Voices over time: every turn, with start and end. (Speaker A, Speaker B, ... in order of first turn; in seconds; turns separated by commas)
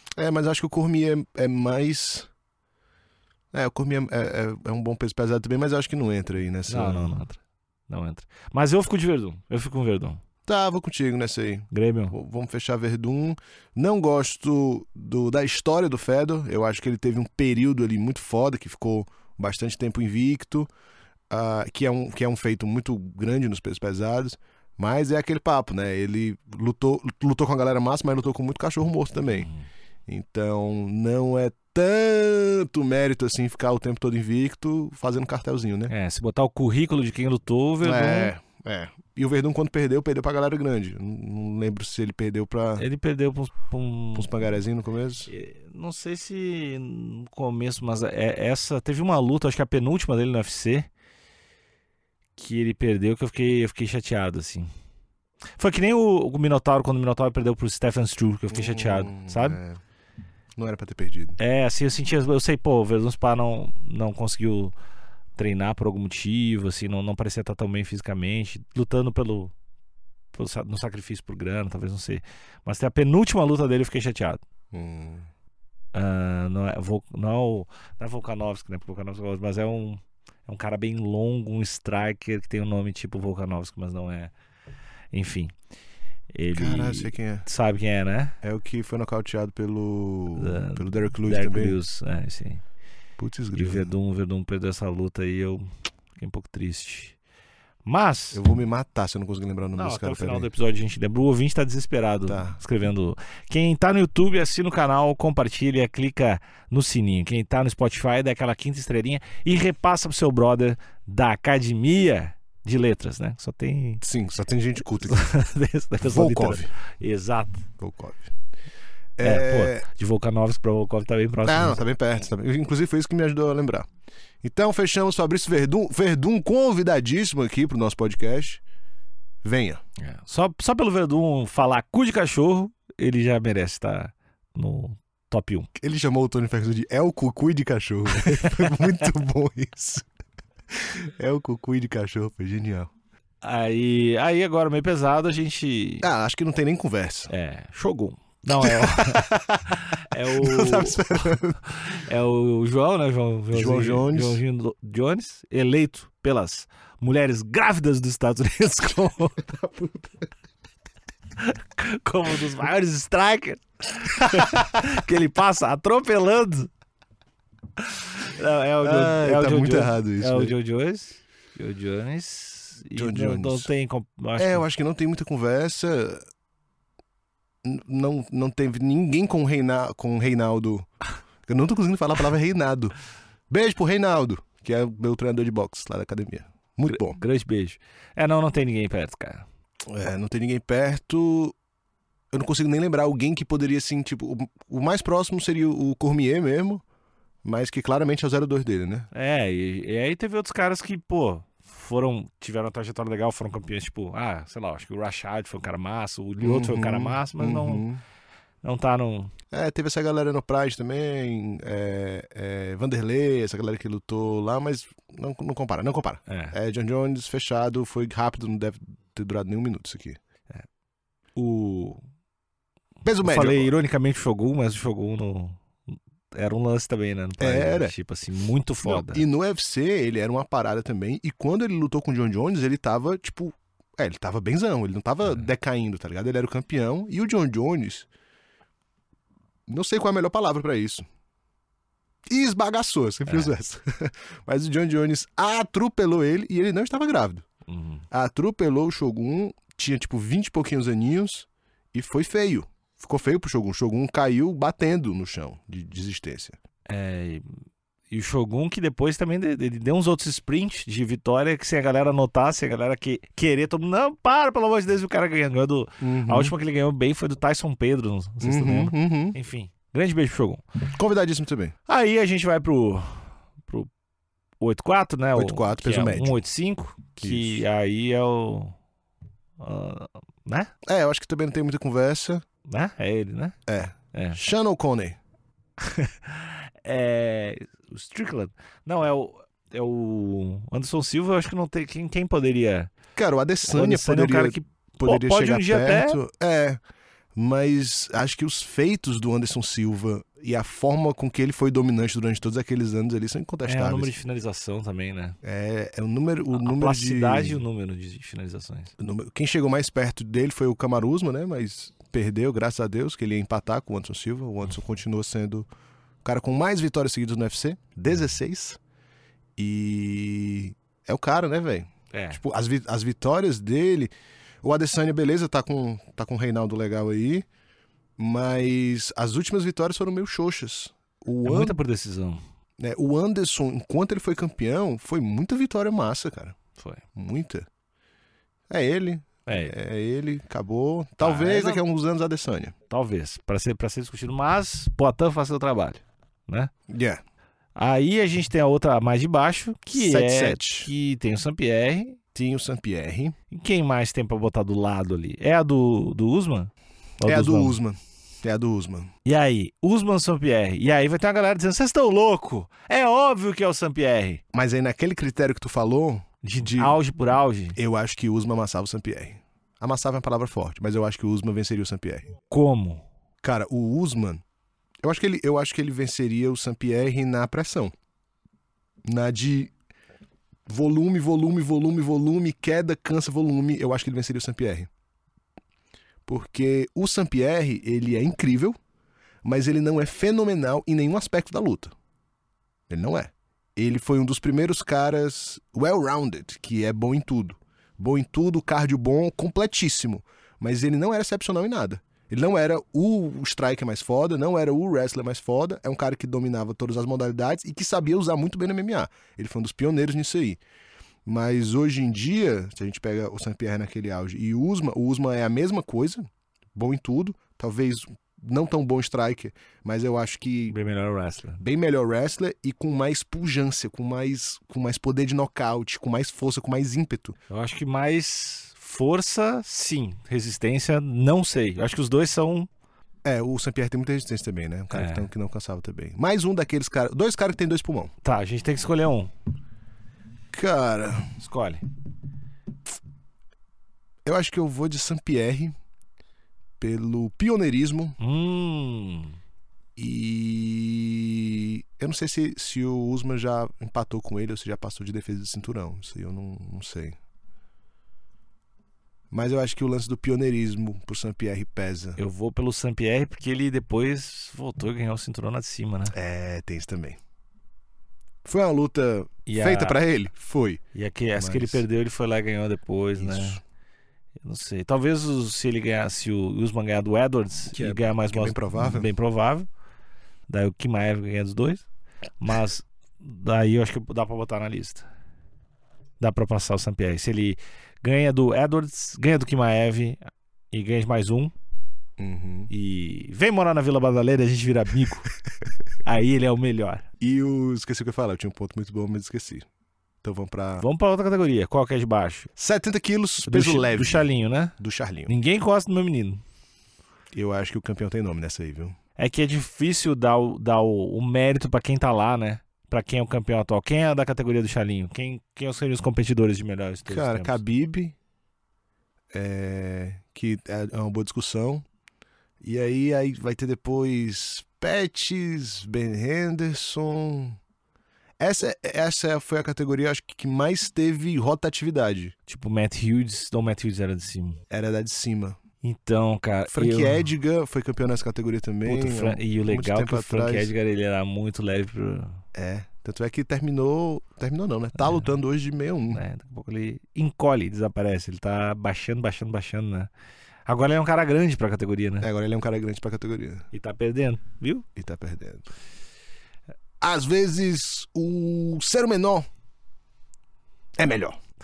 Speaker A: 0.2-2.3, Speaker A: 3.5-7.2, Speaker B: 6.7-10.2, Speaker A: 10.5-20.7, Speaker B: 11.7-12.2, Speaker A: 21.3-29.5, Speaker B: 29.4-29.6, Speaker A: 30.1-35.9, Speaker B: 35.9-38.3, Speaker A: 37.8-42.8, Speaker B: 42.8-44.3, Speaker A: 44.2-45.3, Speaker B: 45.3-50.9, Speaker B: 52.4-54.7, Speaker B: 55.6-59.6, Speaker A: 58.5-59.8, Speaker A: 60.6-61.4, Speaker B: 61.4-64.7, Speaker B: 65.4-69.5, Speaker B: 70.3-74.4, Speaker A: 74.7-75.3, Speaker B: 75.9-84.3, Speaker B: 85.1-85.5, Speaker B: 86.3-88.4, Speaker A: 86.5-87.5, Speaker A: 88.4-91.8, Speaker B: 90.3-92.6, Speaker A: 93.2-93.9, Speaker B: 93.5-97.2, Speaker B: 97.8-98.4, Speaker A: 98.3-100.5, Speaker B: 99.8-114.0, Speaker A: 102.3-102.5, Speaker A: 114.0-115.3, Speaker B: 115.1-117.7, Speaker A: 116.0-116.7, Speaker A: 117.8-118.3, Speaker A: 119.2-119.8, Speaker B: 119.2-121.8, Speaker A: 121.5-123.9, Speaker A: 124.4-128.6, Speaker A: 129.4-129.8, Speaker B: 130.0-135.7, Speaker A: 135.8-140.1, Speaker B: 138.2-138.9, Speaker A: 140.7-142.9, Speaker B: 143.4-146.1, Speaker A: 146.0-147.3, Speaker B: 147.3-159.5, Speaker A: 148.6-151.6, Speaker A: 153.5-154.4, Speaker A: 159.5-160.1, Speaker B: 161.4-166.7, Speaker B: 167.8-174.7, Speaker A: 168.8-170.6, Speaker A: 172.9-173.7, Speaker A: 174.4-176.2, Speaker A: 177.6-180.9, Speaker A: 181.4-182.9, Speaker A: 183.5-187.2, Speaker B: 186.9-189.5, Speaker A: 189.9-191.6, Speaker A: 192.3-196.8, Speaker A: 197.4-199.1, Speaker B: 199.1-207.8, Speaker A: 206.4-208.0, Speaker B: 208.6-209.3, Speaker A: 209.5-220.2, Speaker B: 216.3-216.6, Speaker B: 221.4-222.0, Speaker A: 223.0-223.7, Speaker B: 223.2-229.2, Speaker A: 227.4-227.9, Speaker A: 228.8-238.1, Speaker A: 239.7-241.1, Speaker A: 242.3-247.4, Speaker B: 243.3-243.5, Speaker B: 247.7-248.1, Speaker A: 248.1-256.6, Speaker B: 256.9-257.4, Speaker B: 258.1-270.6, Speaker A: 266.0-266.5, Speaker A: 268.4-269.4, Speaker A: 271.0-271.7, Speaker B: 271.9-273.9, Speaker B: 274.6-278.8, Speaker A: 275.4-276.4, Speaker A: 277.2-277.6, Speaker B: 279.6-280.7, Speaker A: 280.9-282.4, Speaker B: 282.7-283.6, Speaker A: 283.7-285.2, Speaker B: 284.1-284.4, Speaker B: 285.8-292.9, Speaker A: 293.2-296.8, Speaker B: 293.7-296.2, Speaker A: 297.4-304.1, Speaker B: 303.7-305.4, Speaker A: 305.4-307.6, Speaker B: 306.5-308.9, Speaker A: 309.0-315.7, Speaker A: 316.2-318.8, Speaker A: 319.6-324.1, Speaker B: 322.1-322.4, Speaker A: 324.6-327.5, Speaker A: 328.2-331.8, Speaker B: 331.4-332.4, Speaker A: 332.8-336.6, Speaker B: 336.8-337.0, Speaker A: 337.1-337.7, Speaker A: 338.7-342.7, Speaker B: 339.5-339.8, Speaker B: 341.2-341.8, Speaker B: 342.9-346.7, Speaker A: 346.9-347.2, Speaker B: 347.8-352.2, Speaker A: 349.9-350.9, Speaker A: 352.4-353.4, Speaker B: 353.5-357.8, Speaker A: 357.2-359.1, Speaker B: 359.2-364.4, Speaker A: 364.5-367.0, Speaker B: 366.4-367.8, Speaker A: 367.8-372.3, Speaker B: 372.5-373.1, Speaker A: 373.4-374.4, Speaker A: 375.0-377.9, Speaker A: 379.1-379.7, Speaker A: 380.7-384.9, Speaker A: 386.3-388.8, Speaker A: 389.4-391.9, Speaker A: 392.9-410.6, Speaker A: 411.3-416.2, Speaker A: 416.8-420.8, Speaker B: 420.7-421.6, Speaker A: 421.6-427.4, Speaker B: 427.5-432.7, Speaker A: 433.2-438.1, Speaker B: 434.9-435.3, Speaker B: 438.2-439.3, Speaker A: 440.5-441.3, Speaker B: 441.4-441.8, Speaker A: 444.2-445.7, Speaker A: 446.8-448.2, Speaker B: 448.2-449.4, Speaker A: 450.0-457.2, Speaker A: 459.3-462.2, Speaker B: 462.2-466.1, Speaker A: 466.1-467.2, Speaker A: 468.4-470.8, Speaker B: 469.5-470.0, Speaker B: 470.9-473.6, Speaker A: 471.4-471.8, Speaker A: 473.2-473.6, Speaker B: 474.4-479.7, Speaker A: 477.7-479.1, Speaker B: 480.5-481.9, Speaker B: 482.4-485.1, Speaker B: 486.2-491.5, Speaker A: 492.2-492.7, Speaker B: 492.7-495.3, Speaker B: 496.1-497.1, Speaker A: 497.2-499.7, Speaker A: 500.2-500.9, Speaker B: 500.8-502.5, Speaker A: 502.6-504.3, Speaker B: 503.4-504.8, Speaker A: 504.8-505.3, Speaker B: 505.3-506.4, Speaker A: 507.3-509.0, Speaker B: 509.2-517.6, Speaker A: 517.1-518.2, Speaker A: 519.3-521.9, Speaker A: 522.6-527.6, Speaker A: 528.4-532.3, Speaker B: 532.5-534.6, Speaker A: 534.7-535.6, Speaker B: 535.8-537.3, Speaker A: 536.7-540.7, Speaker B: 538.9-542.4, Speaker A: 542.5-546.2, Speaker B: 546.1-550.1, Speaker B: 550.7-552.3, Speaker A: 552.2-553.7, Speaker B: 553.7-554.9, Speaker A: 555.0-555.6, Speaker A: 557.0-559.5, Speaker A: 561.0-561.4